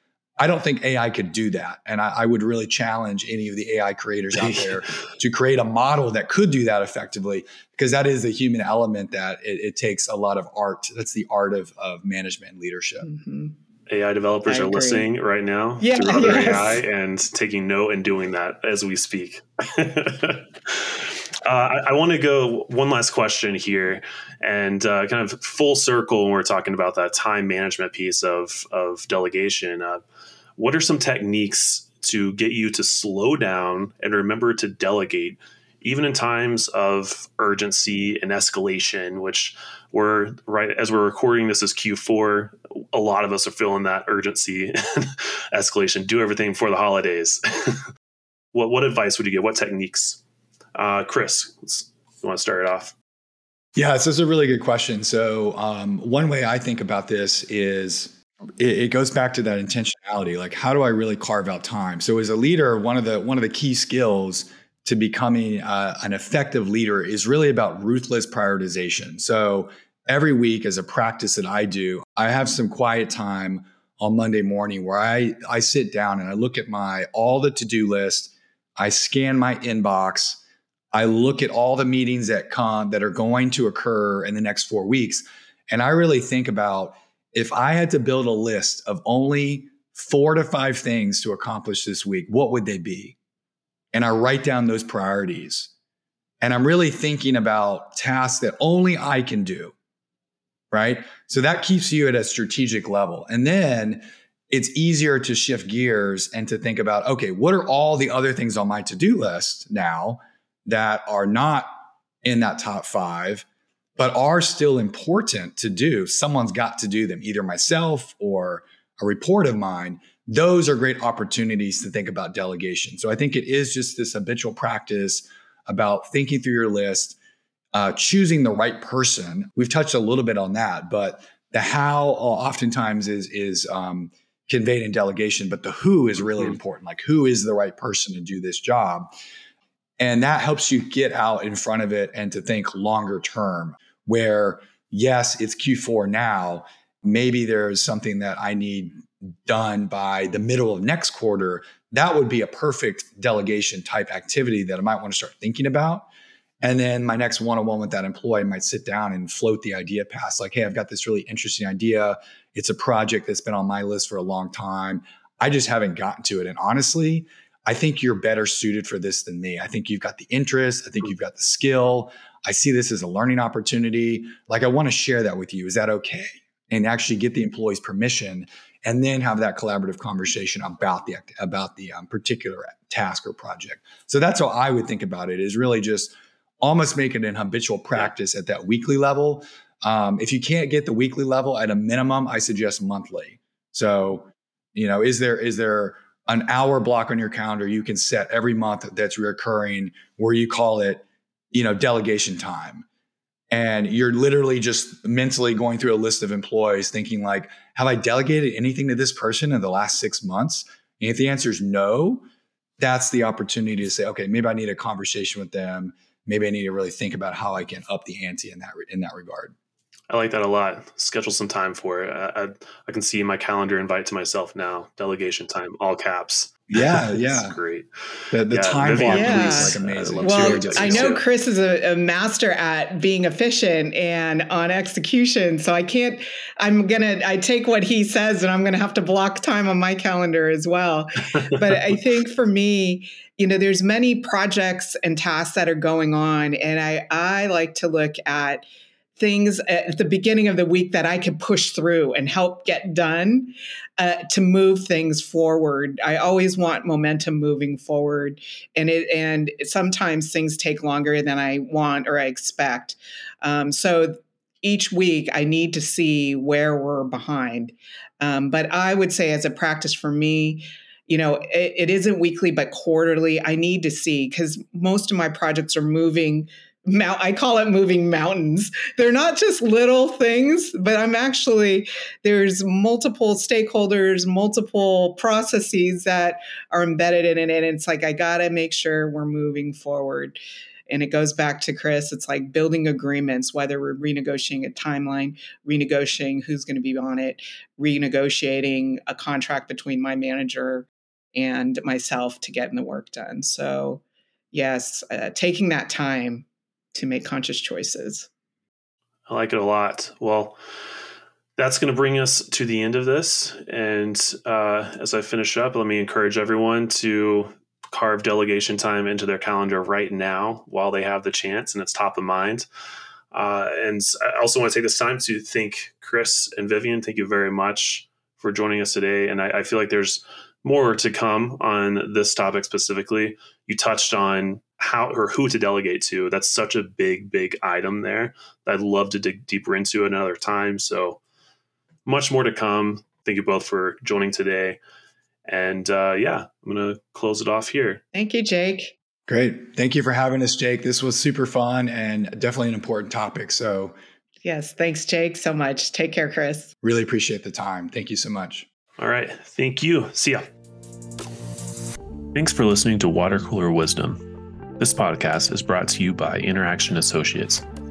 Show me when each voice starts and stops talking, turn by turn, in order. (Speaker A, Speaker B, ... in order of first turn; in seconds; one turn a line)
Speaker A: 0.4-13.1
Speaker B: 13.0-13.6
Speaker C: 13.9-30.0
Speaker B: 14.5-15.1
Speaker B: 15.8-16.8
Speaker C: 30.6-47.9
Speaker C: 48.5-50.2
Speaker C: 50.8-53.0
Speaker A: 53.8-80.4
Speaker A: 80.9-93.2
Speaker A: 93.9-95.7
Speaker A: 96.4-99.7
Speaker A: 100.7-111.7
Speaker A: 112.2-113.5
Speaker A: 114.0-127.2
Speaker A: 127.7-139.1
Speaker A: 140.0-156.1
Speaker A: 156.6-202.8
Speaker A: 203.5-212.2
Speaker A: 212.8-219.6
Speaker C: 220.1-231.2
Speaker A: 226.7-227.6
Speaker A: 228.3-231.2
Speaker B: 229.1-290.4
Speaker B: 290.9-308.3
Speaker C: 309.3-310.6
Speaker C: 311.6-322.7
Speaker C: 323.3-341.2
Speaker C: 342.1-344.8
Speaker C: 345.5-348.0
Speaker B: 348.1-348.9
Speaker A: 349.3-353.9
Speaker B: 354.4-356.7
Speaker A: 356.8-358.7
Speaker C: 359.0-360.5
Speaker C: 362.3-364.2
Speaker C: 364.8-367.6